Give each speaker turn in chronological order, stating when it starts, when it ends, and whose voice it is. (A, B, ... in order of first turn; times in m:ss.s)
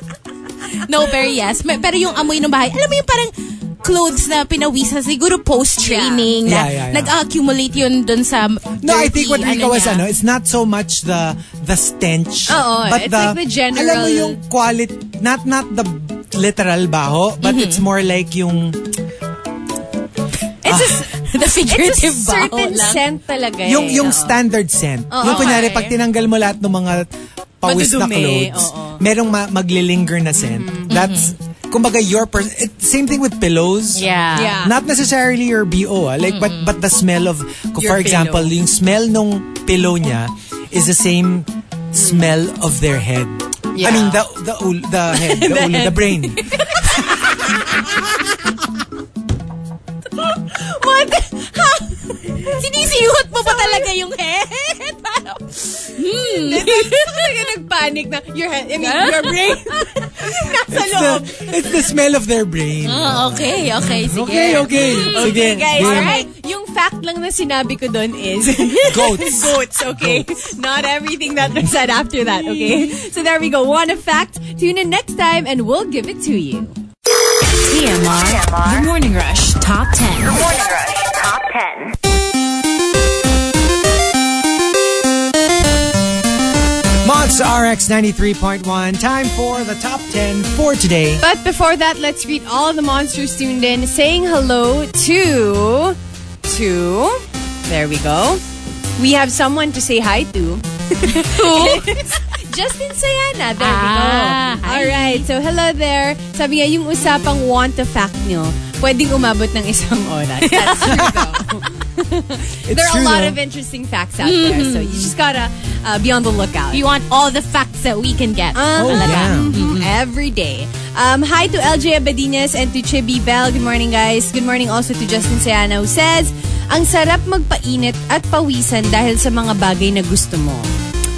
0:00.8-0:10.0 A
0:05.8-0:06.3 B
0:06.4-0:07.1 C
0:08.8-0:18.9 C
0:12.5-0:14.4 B
0:17.4-0:17.8 A
0:20.6-0:24.4 B
0:20.6-0:21.0 C
0:21.1-0:23.0 A
0:23.6-0:27.1 C
0:25.1-0:25.8 B
0:25.2-0:25.9 A
0:27.6-0:34.0 C
0:27.6-0:29.0 B
0:30.3-0:30.9 B
0:30.9-0:31.3 A
0:33.9-0:34.6 A
0:34.3-0:34.7 B
0:34.6-0:47.2 C
0:36.2-0:36.7 A
0:37.8-0:38.5 B
0:42.0-0:42.3 B
0:43.7-0:44.2 B
0:45.1-0:48.2 B
0:50.2-0:52.6 B
0:52.4-0:55.2 A
0:53.4-0:53.9 B
0:55.4-1:01.9 B
0:55.9-0:57.2 A
0:58.8-0:59.6 A
1:00.7-1:06.2 C
1:02.8-1:06.2 A
1:04.7-1:16.7 B
1:08.8-1:10.3 C
1:12.5-1:12.8 A
1:17.6-1:20.4 D
1:18.0-1:18.9 E
1:20.2-1:21.9 E
1:27.0-1:31.2 C
1:31.2-1:38.4 B
1:39.0-1:56.8 B
1:41.2-1:42.0 A
1:43.6-1:45.2 A
1:50.5-1:51.0 A
1:50.8-1:51.2 C
1:52.6-1:53.4 C
1:54.2-1:55.1 A
1:56.7-1:59.9 A
1:58.5-2:10.7 B
1:58.8-1:59.6 C